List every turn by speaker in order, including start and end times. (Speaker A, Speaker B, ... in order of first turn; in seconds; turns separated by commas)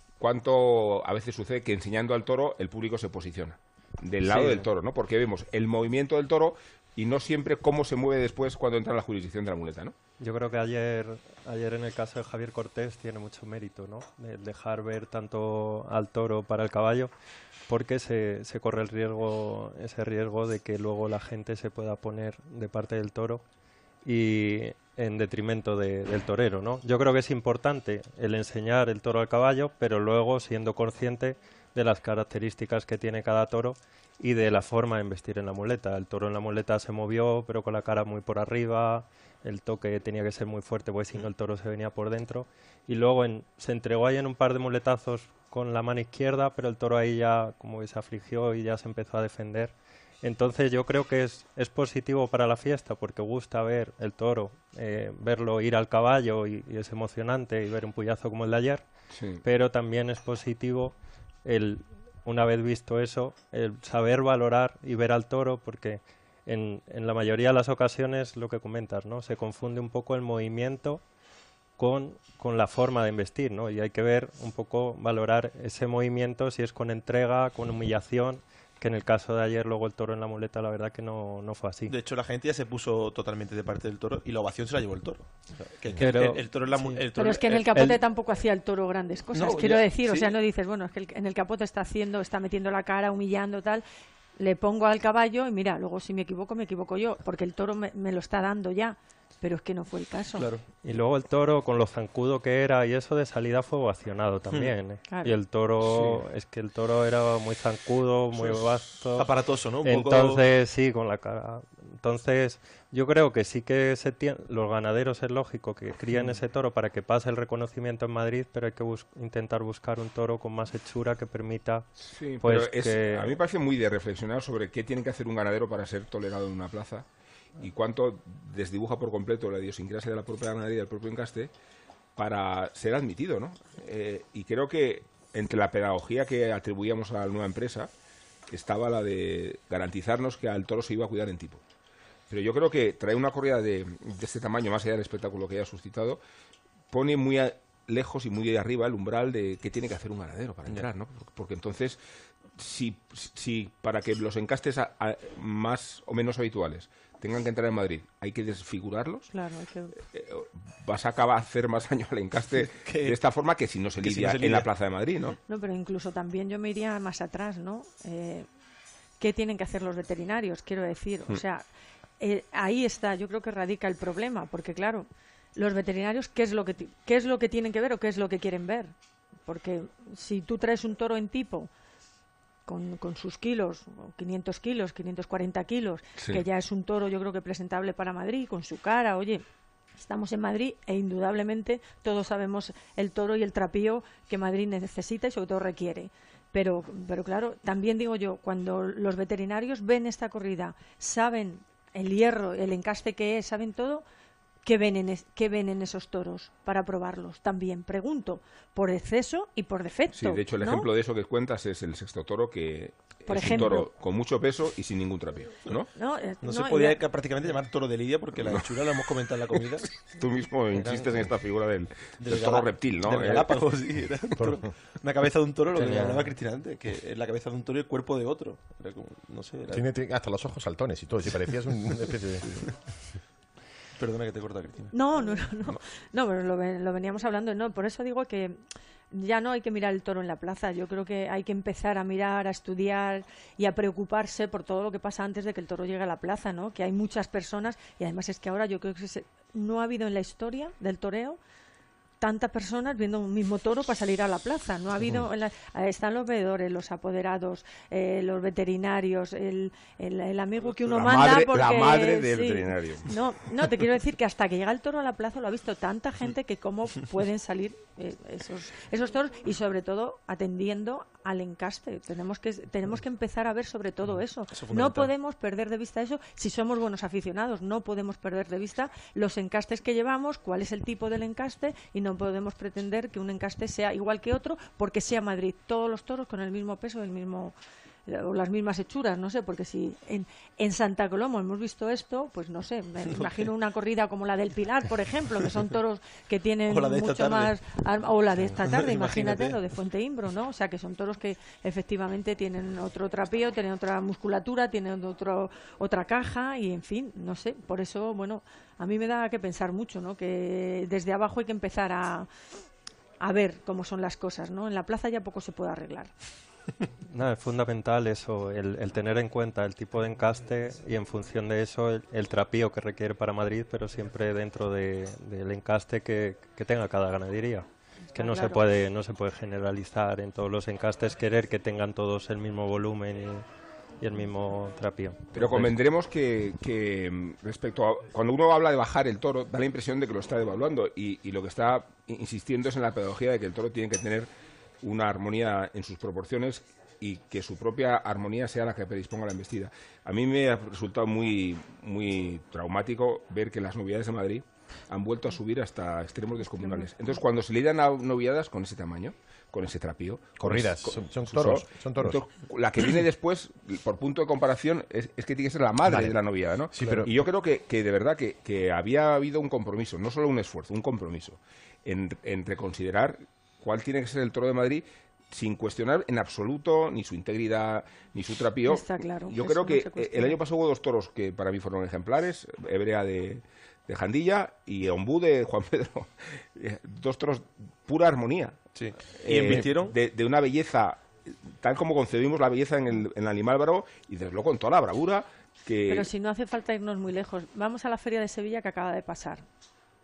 Speaker A: 0.2-9.9, Speaker B: 4.3-4.6, Speaker B: 10.2-17.1, Speaker B: 17.7-23.4, Speaker B: 24.1-58.9, Speaker A: 59.1-59.4, Speaker B: 59.4-71.0, Speaker B: 71.8-81.9, Speaker C: 81.9-88.0, Speaker B: 86.0-87.0, Speaker D: 87.2-93.8, Speaker C: 89.3-90.3, Speaker D: 94.4-100.5, Speaker C: 100.4-100.6, Speaker B: 100.8-109.3, Speaker C: 104.5-104.7, Speaker D: 105.1-105.3, Speaker A: 105.9-106.2, Speaker C: 108.3-110.4, Speaker B: 109.8-121.9, Speaker A: 122.1-127.1, Speaker B: 122.4-123.4, Speaker A: 127.6-131.5, Speaker A: 132.2-137.9, Speaker A: 138.5-141.6, Speaker A: 142.3-146.2, Speaker A: 146.9-152.0, Speaker A: 152.6-159.3, Speaker D: 159.3-159.9, Speaker A: 160.0-165.4, Speaker C: 162.8-163.2, Speaker C: 164.0-164.7, Speaker D: 165.5-168.5, Speaker D: 169.2-171.7, Speaker D: 172.2-178.9, Speaker D: 179.4-181.7, Speaker D: 182.7-189.4, Speaker D: 190.0-204.1, Speaker D: 204.6-210.9, Speaker A: 210.1-215.9, Speaker D: 213.3-213.9, Speaker D: 215.9-217.0, Speaker C: 216.4-219.9, Speaker A: 220.0-223.7, Speaker C: 220.7-221.3, Speaker C: 222.2-229.8, Speaker E: 224.4-224.7, Speaker B: 225.8-226.3, Speaker E: 229.7-232.5, Speaker C: 234.0-234.9, Speaker D: 234.9-251.4, Speaker D: 252.2-287.6, Speaker A: 260.8-263.1, Speaker C: 274.5-275.1, Speaker D: 288.1-312.3, Speaker C: 296.7-297.5, Speaker C: 298.4-299.6, Speaker D: 313.2-316.1, Speaker B: 317.1-333.4, Speaker D: 328.1-328.6, Speaker B: 334.0-335.7, Speaker A: 335.4-344.3, Speaker A: 344.8-388.6, Speaker D: 356.6-356.9, Speaker E: 360.4-362.2, Speaker E: 365.8-366.2, Speaker E: 366.7-367.1, Speaker D: 378.6-380.4, Speaker C: 388.8-389.9, Speaker A: 389.3-396.1, Speaker D: 395.9-399.4